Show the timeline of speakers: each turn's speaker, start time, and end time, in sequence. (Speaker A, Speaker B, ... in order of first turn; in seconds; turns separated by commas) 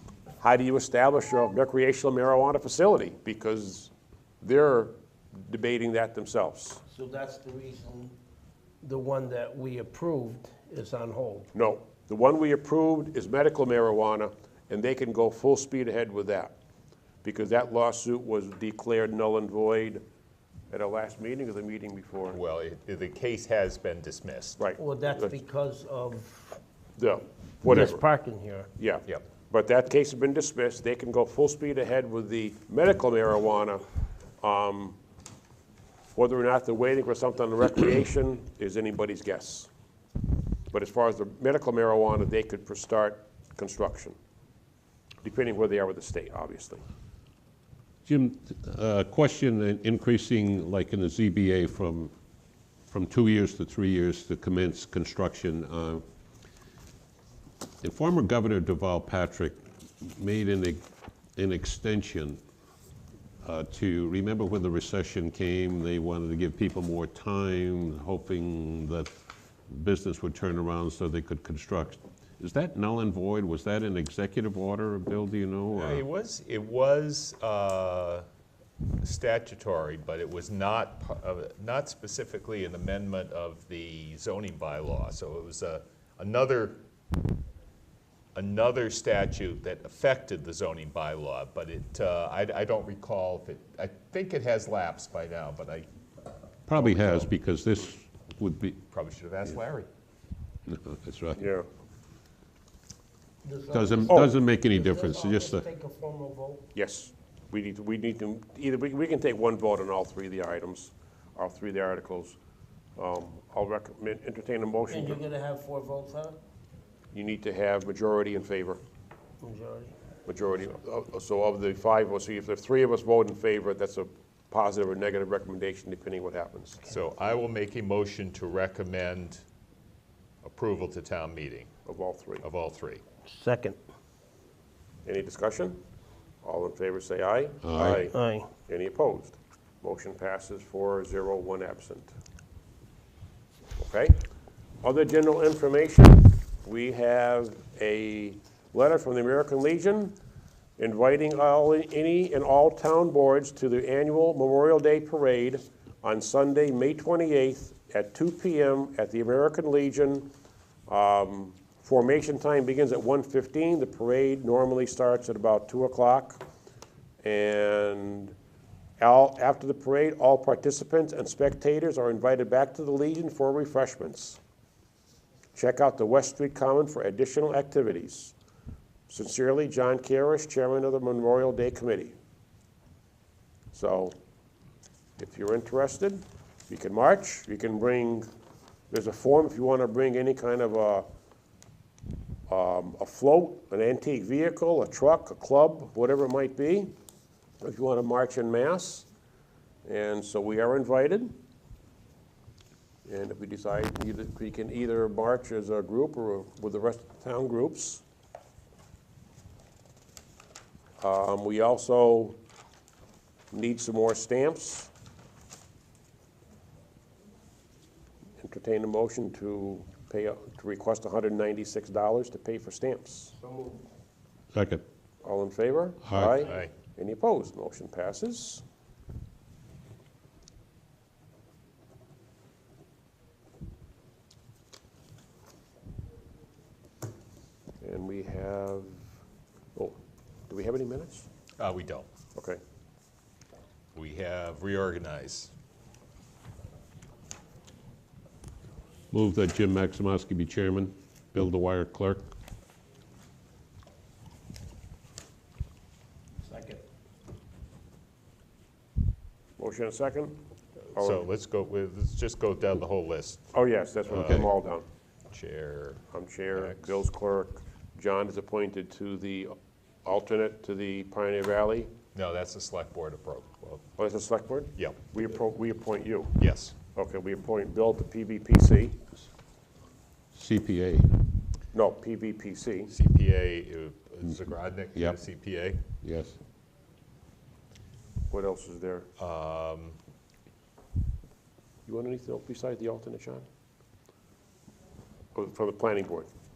Speaker A: 0.4-6.8, Speaker B: 6.9-8.1, Speaker B: 8.8-11.5, Speaker A: 11.5-16.5, Speaker A: 17.2-20.0, Speaker A: 20.7-22.4, Speaker C: 22.3-24.6, Speaker A: 24.6-25.4, Speaker B: 24.8-26.6, Speaker A: 26.9-28.0, Speaker B: 27.6-28.7, Speaker A: 28.8-33.8, Speaker A: 34.4-35.0, Speaker A: 36.1-39.7, Speaker A: 40.7-44.1, Speaker A: 45.2-46.8, Speaker D: 48.0-52.1, Speaker D: 52.9-56.0, Speaker D: 57.8-60.8, Speaker D: 61.4-62.4, Speaker D: 63.4-69.1, Speaker D: 69.7-76.0, Speaker C: 75.7-78.2, Speaker C: 79.0-86.8, Speaker C: 88.3-95.9, Speaker D: 96.7-98.8, Speaker C: 96.7-97.3, Speaker C: 98.9-99.9, Speaker D: 100.7-101.4, Speaker A: 101.4-101.7, Speaker B: 103.4-106.6, Speaker D: 103.7-105.7, Speaker A: 106.7-112.4, Speaker A: 113.0-115.2, Speaker B: 114.9-116.4, Speaker A: 117.1-118.8, Speaker B: 119.4-119.9, Speaker A: 120.2-126.8, Speaker C: 126.8-129.4, Speaker C: 130.4-131.7, Speaker A: 131.8-132.4, Speaker C: 132.4-133.0, Speaker B: 133.3-133.8, Speaker A: 135.0-135.8, Speaker A: 136.4-142.1, Speaker D: 137.6-138.1, Speaker B: 138.0-138.5, Speaker A: 143.8-144.2, Speaker A: 144.8-150.2, Speaker A: 150.8-160.3, Speaker A: 160.9-166.4, Speaker A: 167.2-168.3, Speaker A: 169.0-174.4, Speaker A: 175.5-178.3, Speaker A: 179.1-182.1, Speaker A: 183.7-184.2, Speaker A: 185.2-188.3, Speaker A: 188.9-191.1, Speaker A: 192.5-196.9, Speaker A: 197.6-199.1, Speaker A: 199.8-201.4, Speaker A: 203.0-208.0, Speaker A: 211.0-212.4, Speaker A: 213.5-214.9, Speaker A: 218.4-223.4, Speaker B: 223.5-223.8, Speaker D: 224.5-224.8, Speaker A: 225.2-228.6, Speaker D: 226.0-226.4, Speaker A: 237.8-239.1, Speaker A: 240.5-241.3, Speaker C: 241.6-242.1, Speaker A: 242.3-242.6, Speaker C: 243.9-245.5, Speaker D: 249.1-252.3, Speaker B: 256.4-256.8, Speaker A: 259.6-260.4, Speaker A: 260.9-261.3, Speaker C: 260.9-263.4, Speaker A: 263.5-264.9, Speaker C: 264.1-264.5, Speaker D: 264.1-264.5, Speaker C: 265.3-266.0, Speaker A: 266.1-269.5, Speaker C: 266.5-266.9, Speaker A: 270.0-271.9, Speaker C: 272.1-273.8, Speaker A: 273.9-276.4, Speaker C: 276.4-276.8, Speaker A: 276.9-279.0, Speaker D: 280.3-281.2, Speaker A: 281.7-282.9, Speaker C: 282.9-285.8, Speaker D: 284.9-285.2, Speaker D: 286.0-286.4, Speaker A: 288.3-289.1, Speaker C: 289.2-290.0, Speaker A: 291.9-293.5, Speaker A: 295.3-296.3